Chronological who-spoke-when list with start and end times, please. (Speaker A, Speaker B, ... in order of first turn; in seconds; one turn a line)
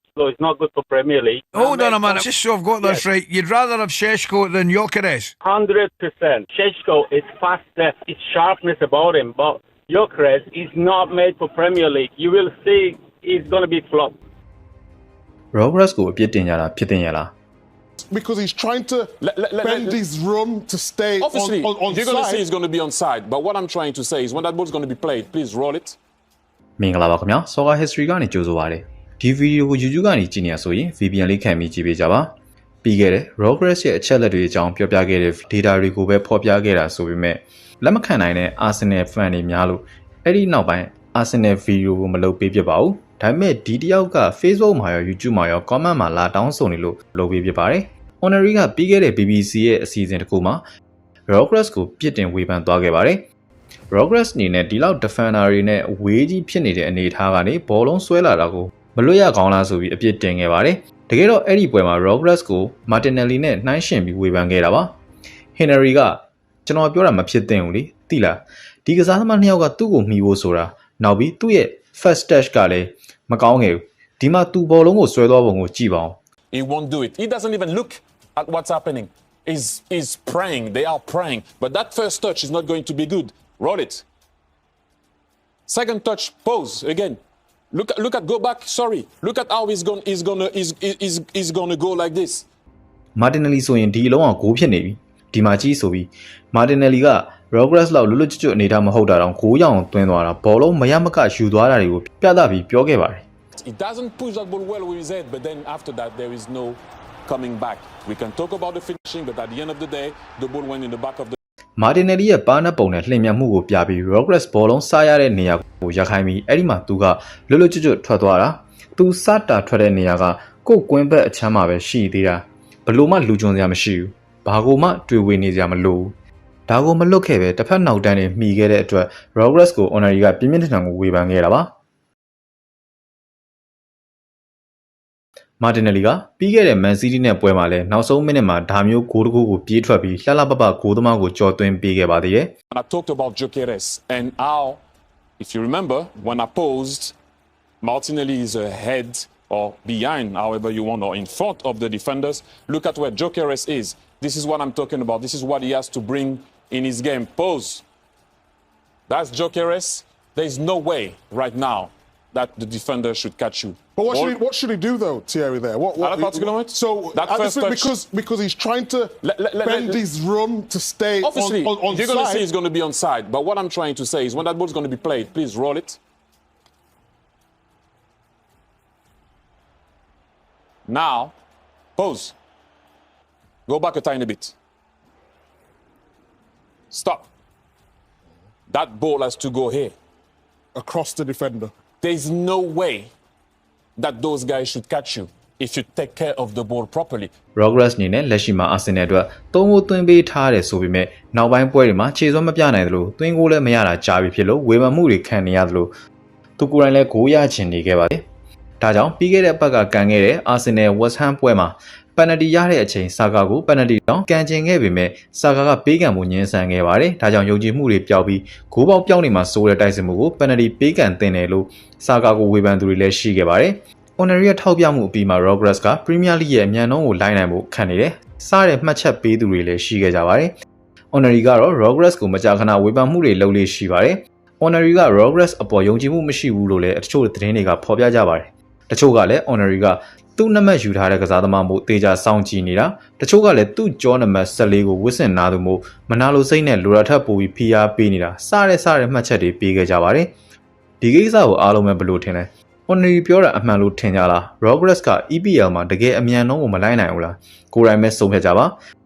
Speaker A: 0.1-2.2
Speaker B: 1.5-5.3
Speaker A: 5.4-14.2
Speaker C: 15.5-17.3
Speaker D: 18.0-22.4
Speaker E: 19.2-20.0
Speaker E: 21.2-26.0
Speaker C: 26.8-32.3
Speaker C: 32.8-50.6
Speaker C: 51.3-53.2
Speaker C: 53.9-64.9
Speaker C: 65.5-76.2
Speaker E: 76.5-84.0
Speaker E: 85.7-87.2
Speaker E: 87.7-92.5
Speaker C: 93.2-103.2
Speaker E: 103.5-111.4
Speaker C: 111.8-126.1
Speaker C: 126.7-131.7
Speaker C: 135.6-142.5
Speaker E: 142.7-144.8
Speaker E: 145.4-147.1
Speaker E: 147.8-157.8
Speaker E: 159.1-164.4
Speaker D: 164.0-172.4
Speaker E: 166.0-168.0
Speaker E: 169.2-170.0
Speaker E: 171.2-176.0
Speaker E: 180.9-181.3
Speaker E: 181.9-182.3
Speaker E: 183.7-184.6
Speaker E: 186.9-187.3
Speaker E: 188.7-189.9
Speaker D: 190.7-191.7
Speaker E: 192.0-193.1
Speaker E: 194.0-197.3
Speaker C: 197.6-205.9
Speaker C: 206.6-208.2
Speaker C: 208.8-230.5
Speaker C: 231.1-250.3
Speaker C: 251.0-258.8